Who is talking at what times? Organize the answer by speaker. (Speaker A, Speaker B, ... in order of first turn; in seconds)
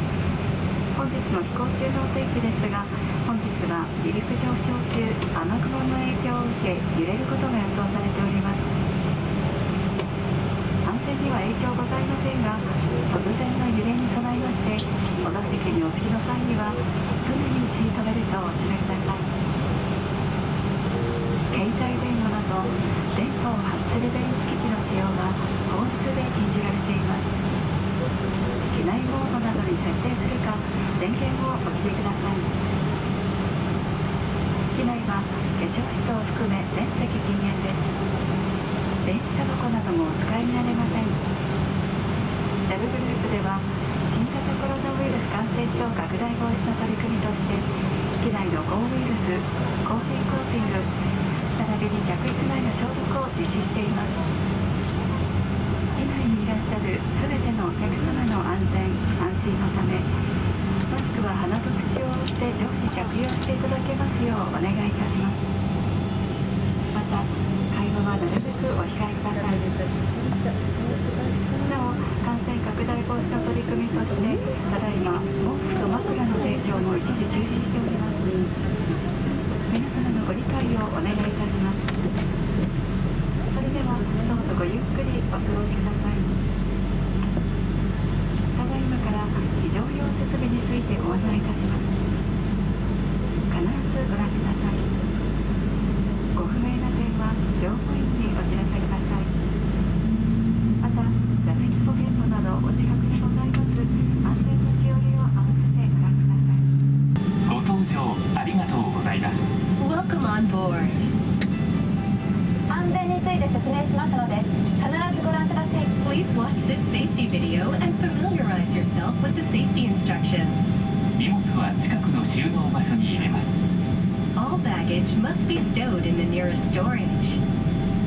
Speaker A: 0.9-8.7, 10.8-19.3, 21.5-27.3, 28.7-32.5, 34.7-37.8, 39.0-41.2, 42.7-47.7, 48.2-50.9, 51.5-54.2, 56.0-60.1, 60.9-65.4, 66.9-69.8, 71.5-78.4, 79.7-81.8, 83.5-86.3, 88.5-91.9, 93.5-94.9, 96.3-99.3, 100.8-106.6
Speaker B: 107.5-109.5, 121.2-123.5
Speaker C: 109.8-111.1, 115.9-120.8, 124.4-127.4
Speaker D: 112.7-115.9